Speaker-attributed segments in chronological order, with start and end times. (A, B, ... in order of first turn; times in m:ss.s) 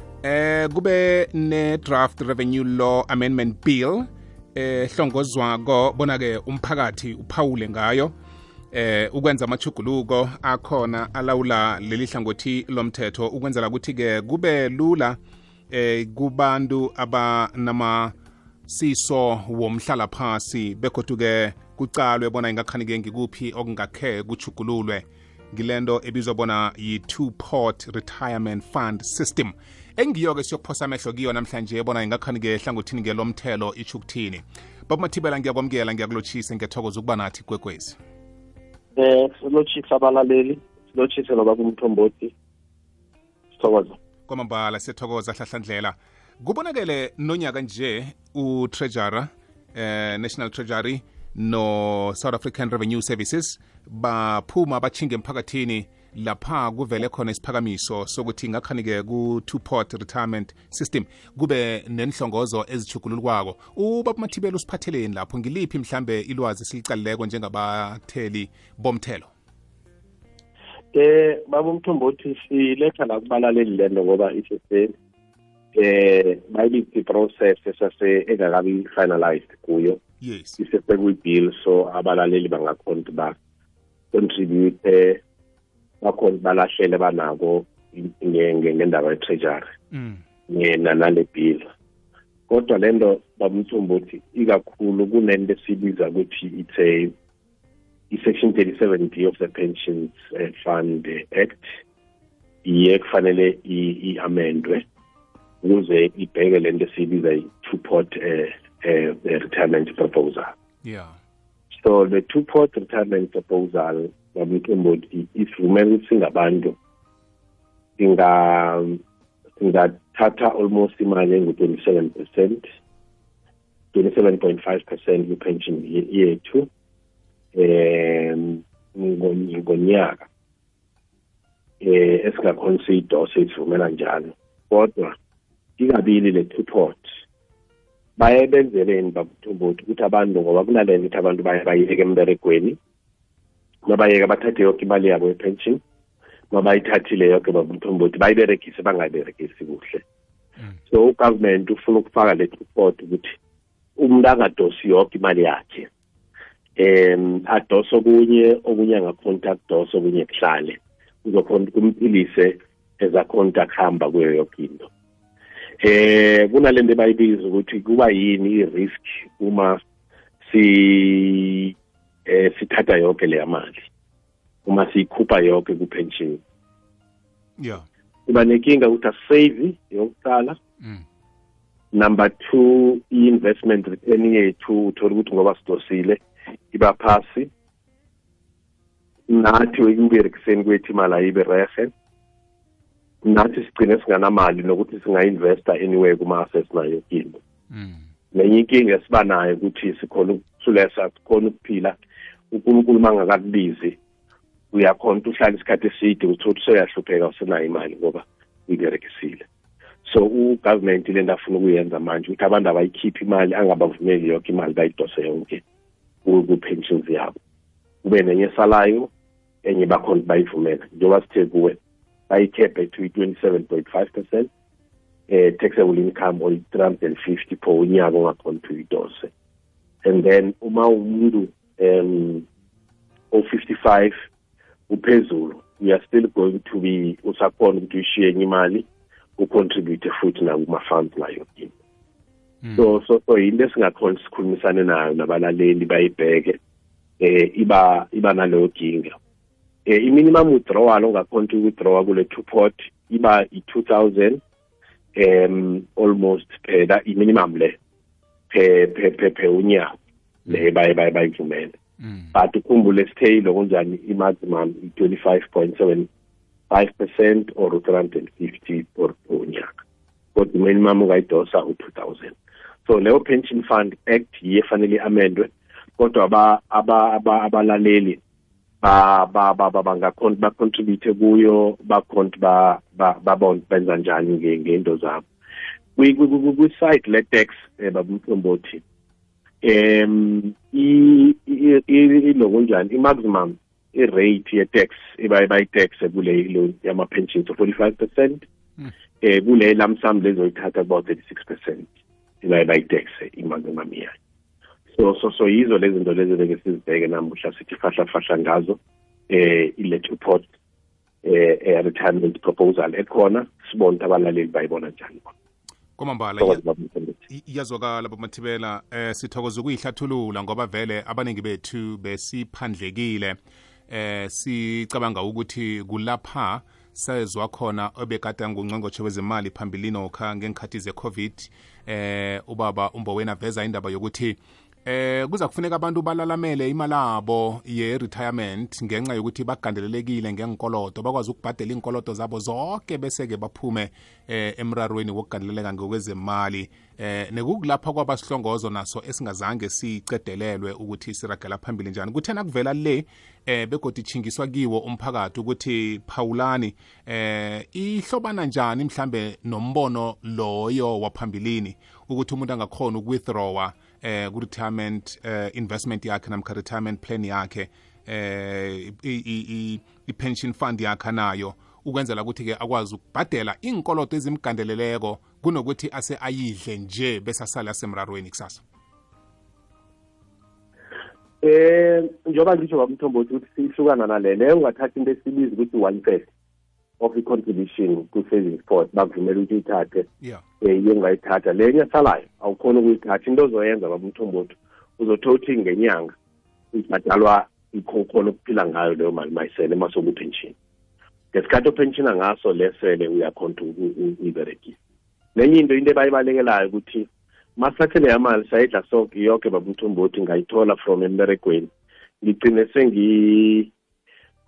0:00.2-0:08.1 A
0:08.7-0:15.2 A
0:15.7-0:18.1 A
0:18.7-0:38.0 A
0:39.0-0:42.3 B
0:43.5-0:44.0 B
0:44.3-1:09.3 A
1:10.9-1:14.9 B
1:15.7-1:20.0 B
1:20.2-1:20.6 A
1:20.6-1:23.3 B
1:24.1-1:25.2 B
1:26.0-1:29.7 B
1:29.9-1:30.2 A
1:30.5-1:31.7 B
1:32.5-1:37.1 B
1:38.1-1:41.7 B
1:42.6-1:44.8 B
1:45.6-1:50.5 B
1:50.8-1:51.2 A
1:51.7-1:56.8 B
1:58.0-1:59.0 B
1:59.6-2:02.6 B
2:03.9-2:06.7 B
2:07.5-2:10.3 B
2:11.8-2:15.1 B
2:15.8-2:17.1 B
2:18.2-2:22.8 B
2:23.8-2:25.8 B
2:26.5-2:30.0 B
2:30.9-2:33.4 B
2:34.0-2:35.9 B
2:36.8-2:44.9 B
2:45.8-2:49.8 B
2:50.4-2:51.7 B
2:52.3-2:53.9 B
2:54.6-2:56.4 B
2:57.6-2:57.8 A
2:58.3-3:00.6 B
3:01.9-3:06.2 B
3:06.7-3:07.5 B
3:09.3-3:11.9 B
3:13.2-3:17.4 B
3:17.7-3:18.0 A
3:18.3-3:21.9 B
3:22.5-3:24.0 B
3:24.7-3:29.4 B
3:30.0-3:35.6 B
3:36.2-3:37.3 B
3:38.0-3:39.1 B
3:39.6-3:44.5 B
3:45.3-3:49.3 B
3:50.0-3:52.4 B
3:53.3-3:54.1 B
3:54.9-4:01.7 B
4:02.6-4:03.0 A
4:02.8-4:06.6 B
4:07.2-4:09.1 B
4:09.9-4:14.4 B
4:15.2-4:17.8 B
4:18.5-4:19.9 B
4:20.5-4:21.8 B
4:22.0-4:22.3 A
4:22.3-4:26.1 B
4:26.7-4:29.7 B
4:30.3-4:38.2 B
4:38.8-4:45.2 B
4:46.0-4:48.8 B
4:49.6-4:58.4 B
4:59.2-5:01.9 B
5:02.4-5:04.1 B
5:04.9-5:08.8 B
5:09.3-5:10.4 B
5:11.2-5:15.3 B
5:16.0-5:16.6 A
5:16.4-5:17.2 B
5:17.3-5:23.4 A
5:23.9-6:18.6 A
6:21.4-6:26.3 B
6:27.0-6:30.0 B
6:30.6-6:36.1 B
6:36.7-6:40.6 B
6:41.3-6:44.8 B
6:45.4-6:51.7 B
6:52.2-6:53.7 B